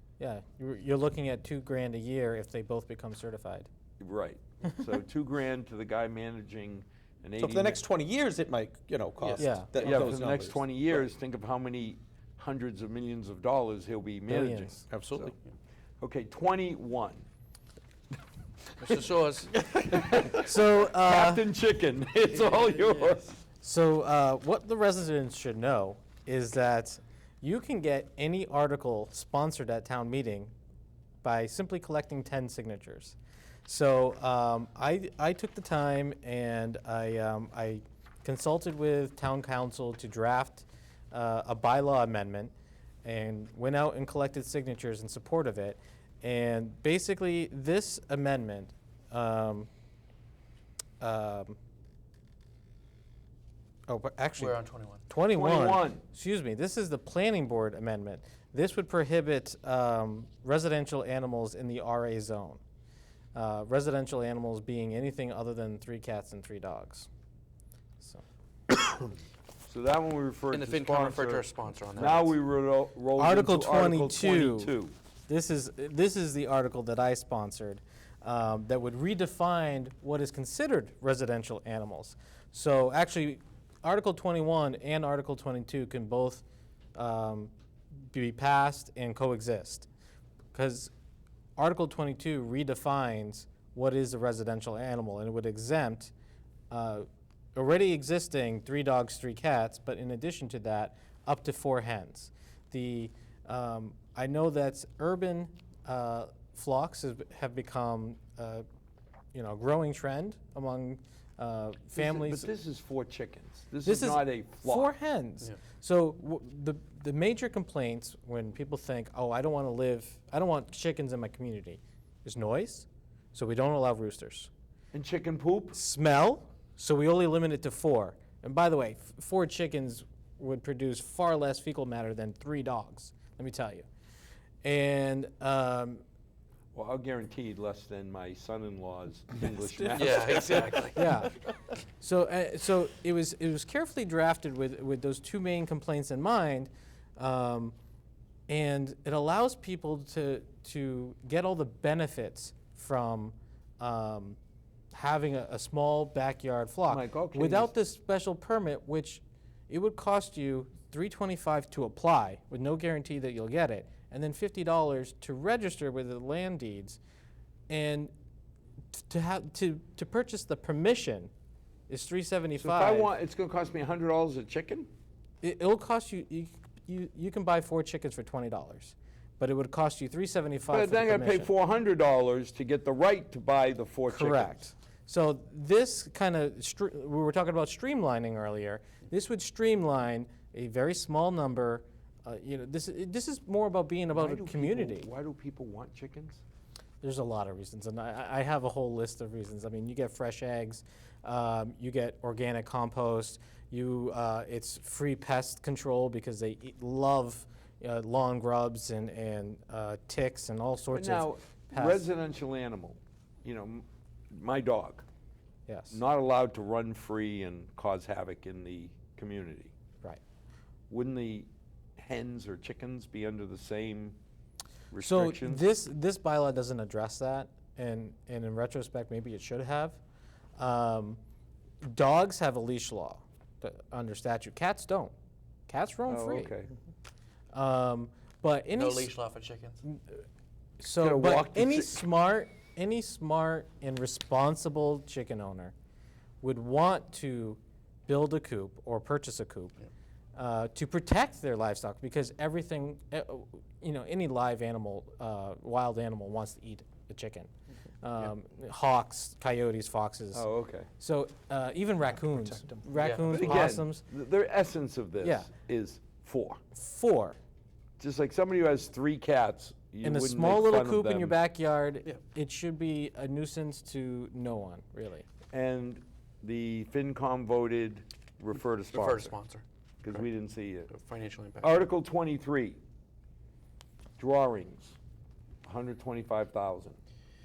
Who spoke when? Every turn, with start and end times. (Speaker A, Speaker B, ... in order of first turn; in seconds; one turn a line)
Speaker A: 0.2-3.7
Speaker B: 4.0-7.8
Speaker C: 7.4-10.6
Speaker A: 9.4-9.7
Speaker B: 9.8-15.3
Speaker A: 14.3-14.8
Speaker C: 14.9-15.3
Speaker B: 16.0-17.2
Speaker D: 18.8-20.0
Speaker B: 19.7-23.4
Speaker A: 20.2-21.5
Speaker A: 23.6-30.5
Speaker A: 31.2-33.2
Speaker A: 33.7-42.5
Speaker A: 43.0-49.7
Speaker A: 51.0-51.6
Speaker A: 53.9-62.6
Speaker D: 54.4-55.0
Speaker B: 55.3-56.0
Speaker A: 63.4-67.1
Speaker B: 69.7-71.5
Speaker D: 70.5-72.3
Speaker B: 72.0-74.9
Speaker A: 73.2-74.8
Speaker A: 75.3-86.4
Speaker A: 87.0-89.9
Speaker A: 90.5-90.9
Speaker A: 91.6-96.1
Speaker A: 96.7-108.7
Speaker A: 109.3-112.5
Speaker B: 112.0-114.9
Speaker A: 113.8-124.5
Speaker B: 124.9-125.8
Speaker A: 125.7-133.9
Speaker A: 134.6-136.0
Speaker B: 136.7-140.8
Speaker D: 139.9-141.1
Speaker C: 140.0-140.7
Speaker A: 140.9-141.3
Speaker A: 142.0-147.8
Speaker A: 148.5-154.4
Speaker A: 154.9-167.0
Speaker B: 156.9-157.7
Speaker A: 167.7-168.1
Speaker A: 168.9-171.3
Speaker A: 171.9-173.1
Speaker B: 172.6-174.9
Speaker A: 175.4-181.5
Speaker B: 180.7-184.7
Speaker A: 184.1-195.1
Speaker B: 194.1-196.4
Speaker A: 197.0-212.1
Speaker B: 210.9-215.1
Speaker A: 215.7-216.0
Speaker B: 215.9-219.7
Speaker B: 220.9-224.2
Speaker B: 224.9-225.6
Speaker A: 225.0-230.0
Speaker A: 230.6-231.2
Speaker A: 231.8-235.1
Speaker A: 235.7-236.5
Speaker B: 236.1-236.7
Speaker A: 237.5-239.1
Speaker D: 238.8-239.8
Speaker A: 240.8-245.7
Speaker B: 241.0-241.9
Speaker A: 246.4-249.8
Speaker A: 250.4-257.5
Speaker A: 258.0-260.4
Speaker B: 260.3-260.9
Speaker A: 261.0-264.0
Speaker D: 263.0-263.4
Speaker B: 263.3-266.6
Speaker A: 265.2-265.5
Speaker A: 266.7-267.4
Speaker B: 268.0-271.4
Speaker A: 270.0-275.3
Speaker B: 275.5-279.3
Speaker D: 278.9-280.2
Speaker B: 280.0-280.9
Speaker D: 280.9-281.9
Speaker B: 281.6-282.8
Speaker B: 284.2-285.0
Speaker B: 285.6-287.0